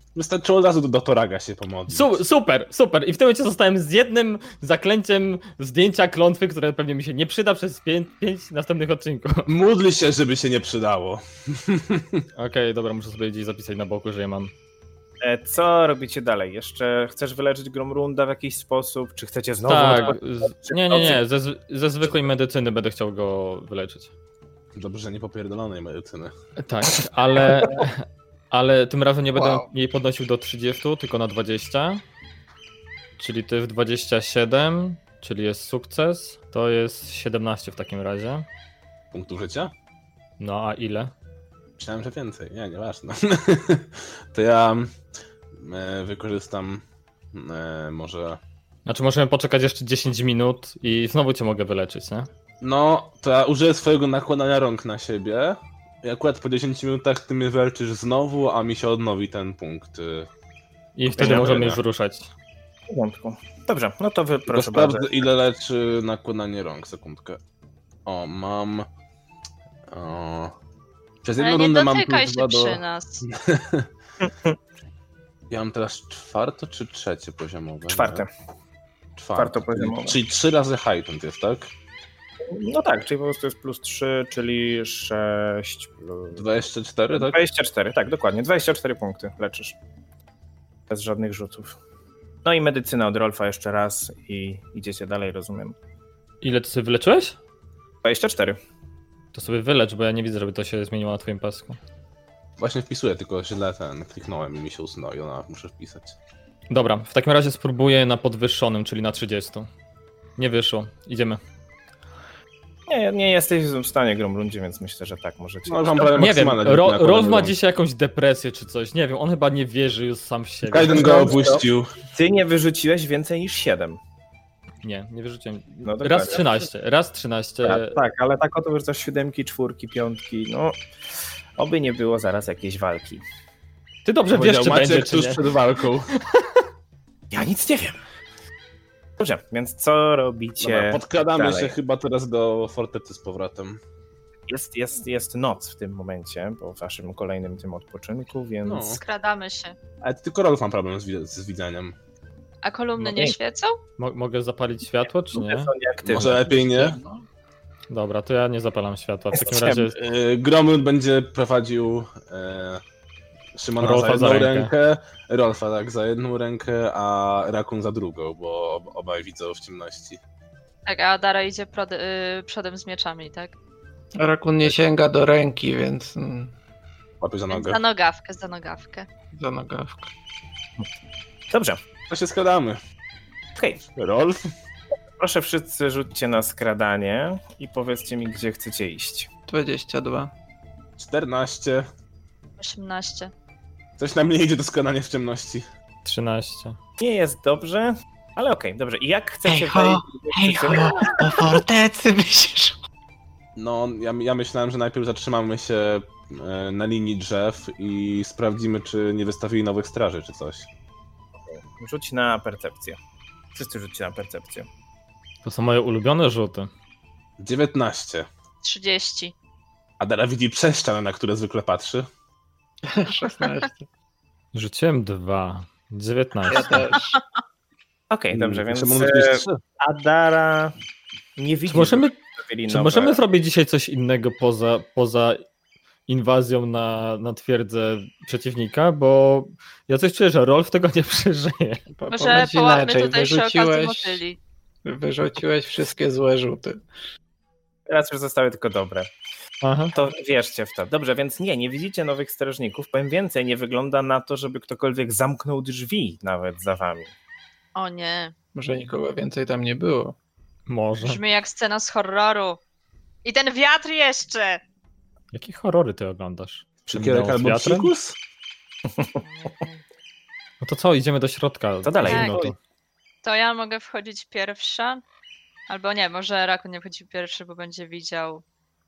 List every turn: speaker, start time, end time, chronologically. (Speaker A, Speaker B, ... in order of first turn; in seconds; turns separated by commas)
Speaker A: 0.1-2.2, Speaker B: 1.9-9.5, Speaker A: 9.4-12.2, Speaker B: 12.3-14.5, Speaker C: 15.2-21.2, Speaker B: 19.6-24.1, Speaker A: 24.7-26.3, Speaker B: 26.6-32.0, Speaker B: 33.2-38.5, Speaker A: 39.1-39.7, Speaker B: 40.4-41.1, Speaker A: 41.8-44.9, Speaker A: 45.5-48.4, Speaker B: 48.9-52.3, Speaker A: 52.6-60.3, Speaker B: 61.0-62.3, Speaker C: 61.2-61.7, Speaker A: 61.2-61.8, Speaker C: 62.9-65.1, Speaker A: 64.5-67.4, Speaker A: 68.0-68.9, Speaker A: 69.9-70.5, Speaker A: 71.2-73.9, Speaker D: 71.4-73.2, Speaker C: 74.2-74.6, Speaker A: 75.5-78.2, Speaker C: 77.9-78.3, Speaker A: 79.2-81.7, Speaker C: 79.4-80.2, Speaker C: 82.5-86.4, Speaker A: 86.3-87.4, Speaker C: 87.1-89.8, Speaker C: 90.9-91.8, Speaker C: 92.4-95.8, Speaker B: 96.4-97.4, Speaker C: 98.0-98.6, Speaker B: 99.3-101.8, Speaker A: 102.6-106.2, Speaker B: 106.7-109.7, Speaker B: 110.4-111.4, Speaker C: 112.9-116.3, Speaker A: 115.7-117.5, Speaker B: 116.2-121.3, Speaker A: 120.7-121.9, Speaker C: 120.9-124.0, Speaker B: 124.8-127.9, Speaker C: 125.8-126.7, Speaker C: 127.6-130.8, Speaker C: 131.6-133.2, Speaker B: 134.1-135.5, Speaker A: 134.3-136.1, Speaker B: 136.1-136.6, Speaker C: 137.3-138.0, Speaker C: 139.2-141.8, Speaker A: 140.6-143.8, Speaker C: 144.5-149.0, Speaker A: 148.6-149.0, Speaker D: 149.0-149.8, Speaker A: 150.0-151.9, Speaker D: 152.6-153.8, Speaker C: 153.0-153.3, Speaker B: 154.0-155.7, Speaker C: 155.3-156.6, Speaker A: 156.1-157.0, Speaker E: 156.2-157.2, Speaker B: 157.9-159.9, Speaker C: 159.3-159.8, Speaker A: 159.8-162.8, Speaker A: 163.5-170.2, Speaker B: 163.8-164.7, Speaker D: 170.9-173.5, Speaker E: 174.2-176.5, Speaker A: 177.2-177.8, Speaker D: 177.5-179.1, Speaker E: 179.3-180.1, Speaker C: 181.5-181.8, Speaker A: 182.1-182.8, Speaker C: 183.6-183.8, Speaker A: 183.9-184.5, Speaker C: 185.2-189.3, Speaker E: 189.5-190.3, Speaker A: 191.0-191.9, Speaker D: 192.6-193.3, Speaker A: 194.0-195.7, Speaker B: 196.1-196.8, Speaker C: 197.0-201.6, Speaker E: 199.5-202.8, Speaker A: 203.6-210.7, Speaker C: 211.4-213.0, Speaker C: 213.5-214.7, Speaker B: 215.4-216.7, Speaker A: 217.4-218.3, Speaker D: 218.6-219.3, Speaker A: 220.0-222.1, Speaker E: 222.8-223.9, Speaker B: 224.5-226.7, Speaker E: 226.4-227.2, Speaker D: 226.9-227.2, Speaker C: 228.1-230.7, Speaker A: 228.3-229.6, Speaker C: 231.4-233.2, Speaker B: 231.7-235.4, Speaker B: 236.1-241.8, Speaker E: 241.9-244.2, Speaker D: 242.1-244.4, Speaker E: 244.8-246.8, Speaker C: 247.9-249.1, Speaker B: 249.6-249.9, Speaker C: 249.9-257.1, Speaker D: 257.7-258.3, Speaker E: 258.6-260.1, Speaker B: 260.7-261.2, Speaker D: 261.0-262.6, Speaker D: 263.2-264.6, Speaker B: 265.3-267.9, Speaker A: 266.9-268.2, Speaker C: 268.9-269.2, Speaker D: 269.2-269.8, Speaker B: 270.6-272.6, Speaker C: 271.8-272.5, Speaker D: 272.1-272.4, Speaker D: 273.2-275.0, Speaker D: 275.7-278.4